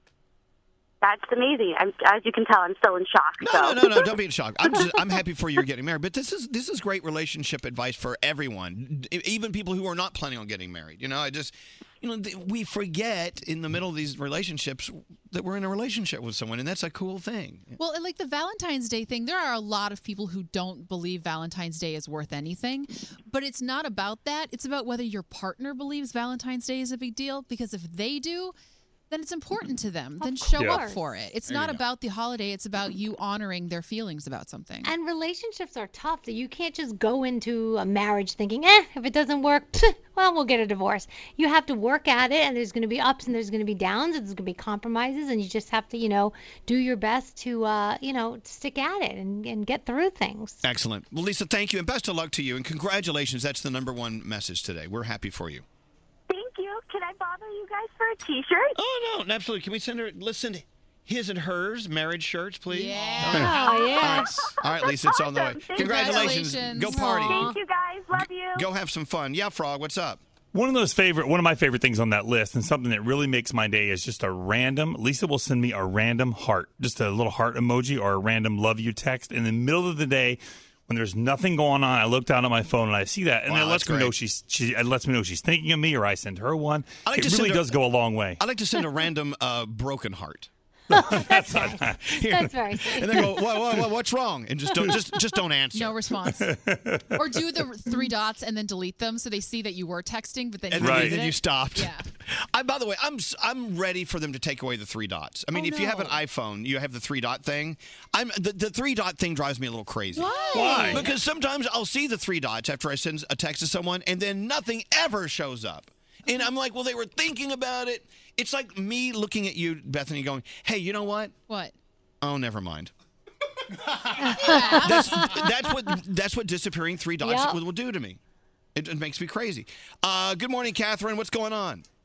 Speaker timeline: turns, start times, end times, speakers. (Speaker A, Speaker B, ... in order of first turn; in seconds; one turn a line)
Speaker A: 1.0-4.0
Speaker B: 3.4-17.8
Speaker C: 17.8-28.6
Speaker C: 29.1-34.9
Speaker D: 30.2-31.0
Speaker E: 30.6-30.8
Speaker D: 34.8-50.6
Speaker B: 50.6-55.6
Speaker A: 56.3-58.7
Speaker B: 58.8-67.5
Speaker C: 62.7-63.9
Speaker D: 63.2-64.3
Speaker A: 63.7-66.2
Speaker C: 65.8-67.0
Speaker D: 66.9-67.6
Speaker A: 67.2-68.7
Speaker B: 68.1-70.2
Speaker E: 70.5-88.4
Speaker B: 83.5-84.1
Speaker B: 87.0-87.7
Speaker B: 88.4-90.5
Speaker D: 90.9-93.4
Speaker E: 90.9-92.0
Speaker B: 92.0-96.0
Speaker C: 95.7-96.5
Speaker E: 96.4-97.1
Speaker C: 97.1-102.0
Speaker B: 100.7-121.3
Speaker E: 100.8-101.1
Speaker C: 105.5-106.2
Speaker C: 110.1-111.1
Speaker D: 110.3-110.5
Speaker E: 110.5-111.0
Speaker C: 121.5-121.8
Speaker B: 122.2-122.9
Speaker D: 124.2-125.5
Speaker C: 124.3-125.3
Speaker B: 124.6-128.2
Speaker D: 127.2-127.6
Speaker B: 128.7-131.8